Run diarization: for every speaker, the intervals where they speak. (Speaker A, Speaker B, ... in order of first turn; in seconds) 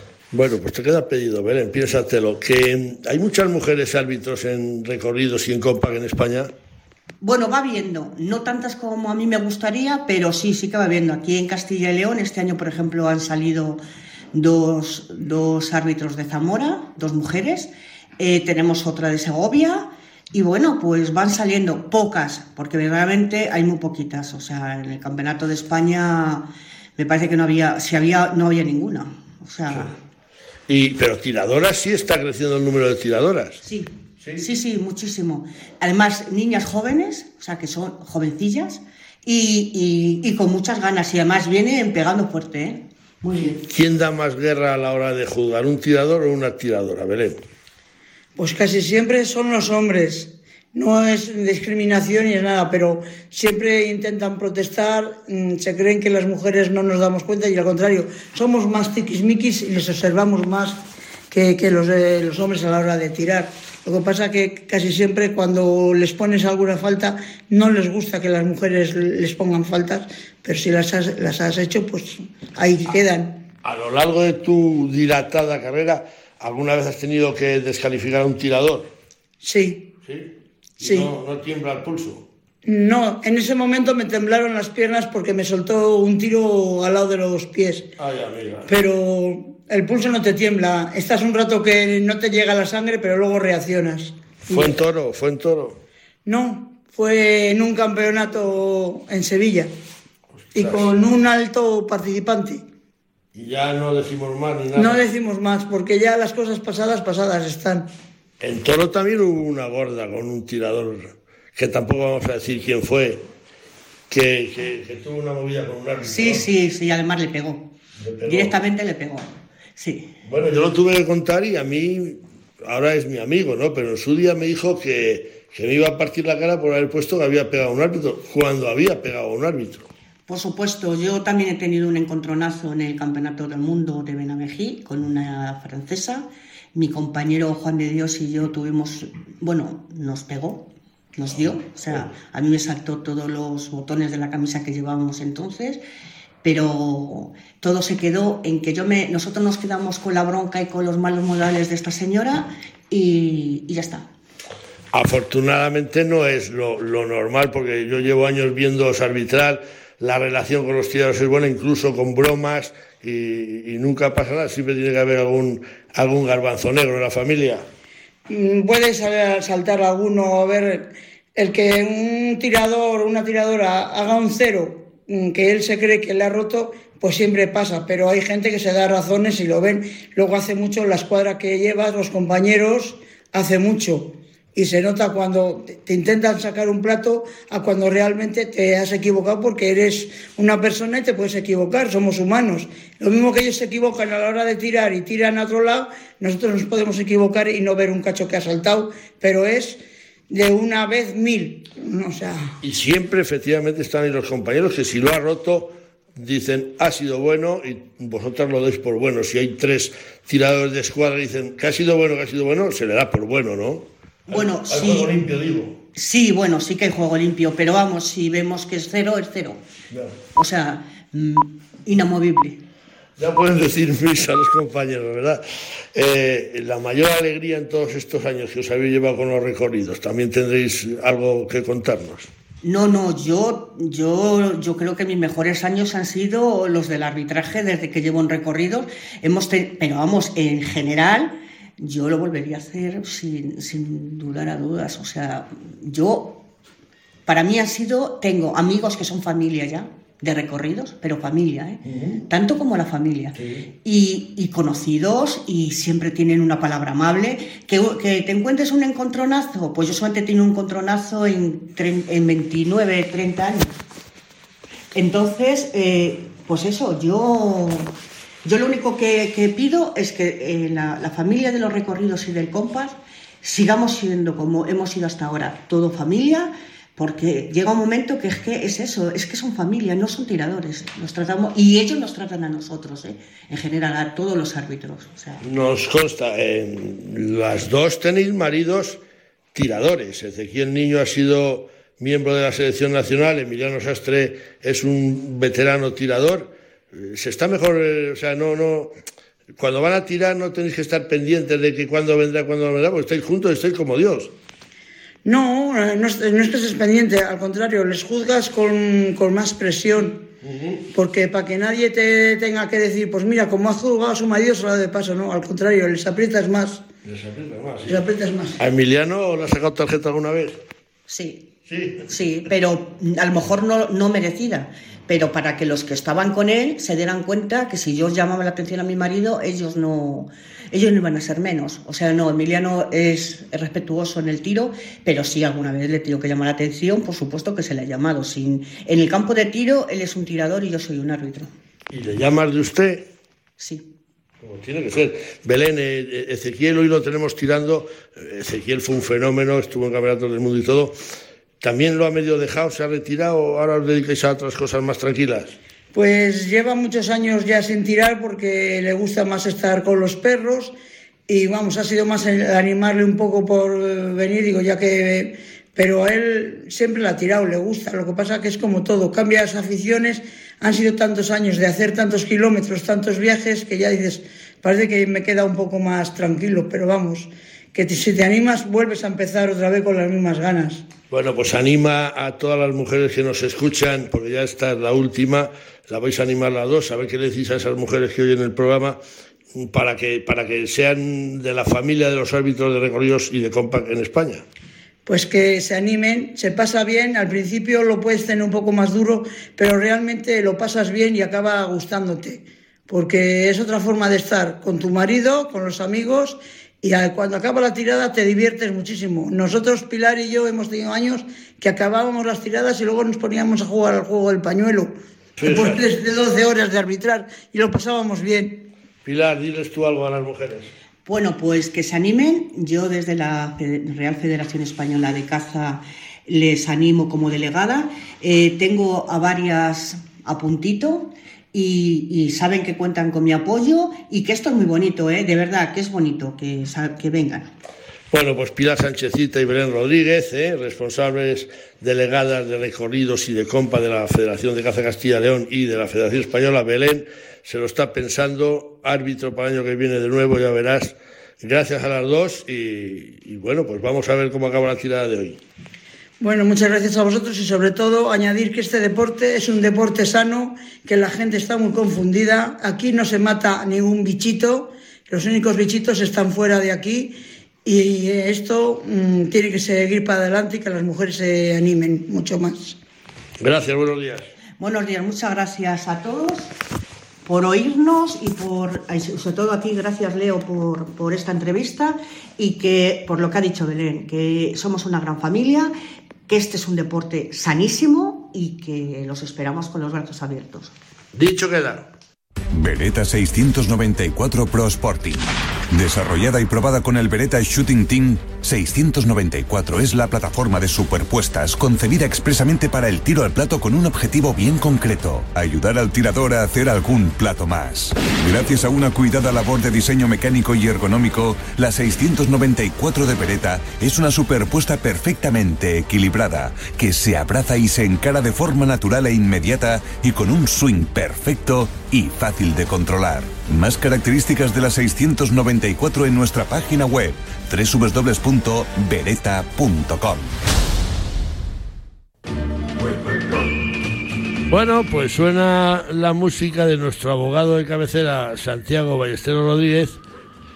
Speaker A: 0.3-6.5, 30.7-33.6, 34.2-34.5, 43.7-47.4, 73.6-78.9, 80.0-82.3, 88.0-88.7, 94.5-95.8, 100.4-101.0, 103.3-105.1, 108.4-113.2, 114.1-116.5, 118.0-118.6, 120.2-129.9, 154.9-167.7, 202.6-215.8, 219.9-220.2, 223.2-232.3, 251.9-252.2, 253.3-253.7, 285.4-289.0, 289.5-298.9, 299.6-304.3, 310.4-310.9, 317.0-318.0, 318.6-320.6, 321.7-322.1, 341.9-343.1, 344.4-351.0, 351.6-355.6, 381.1-389.0, 389.5-394.4, 415.4-415.8, 419.1-420.7, 438.1-455.4, 473.4-474.3, 491.1-491.9, 534.5-540.0
Speaker B: 7.2-13.8, 14.3-30.0, 33.6-43.6, 116.0-117.7, 118.3-120.1, 130.3-145.8, 146.4-154.1, 214.3-215.1, 215.9-219.6, 220.3-222.7, 232.6-246.5, 247.3-263.7, 264.9-267.9, 268.4-285.4, 321.1-321.5, 322.1-341.5, 343.6-343.9, 421.1-437.5, 474.6-476.5, 477.2-485.7, 486.3-490.7
Speaker C: 48.4-60.8, 61.3-73.4, 79.4-79.9, 80.8-81.1, 82.7-87.9, 88.7-94.7, 96.3-99.7, 100.5-102.6, 104.8-107.9, 168.3-202.5, 305.2-310.3, 310.9-316.9, 317.9-318.6, 355.9-360.7, 361.3-380.9, 395.1-418.7, 456.2-472.8
Speaker D: 492.5-530.3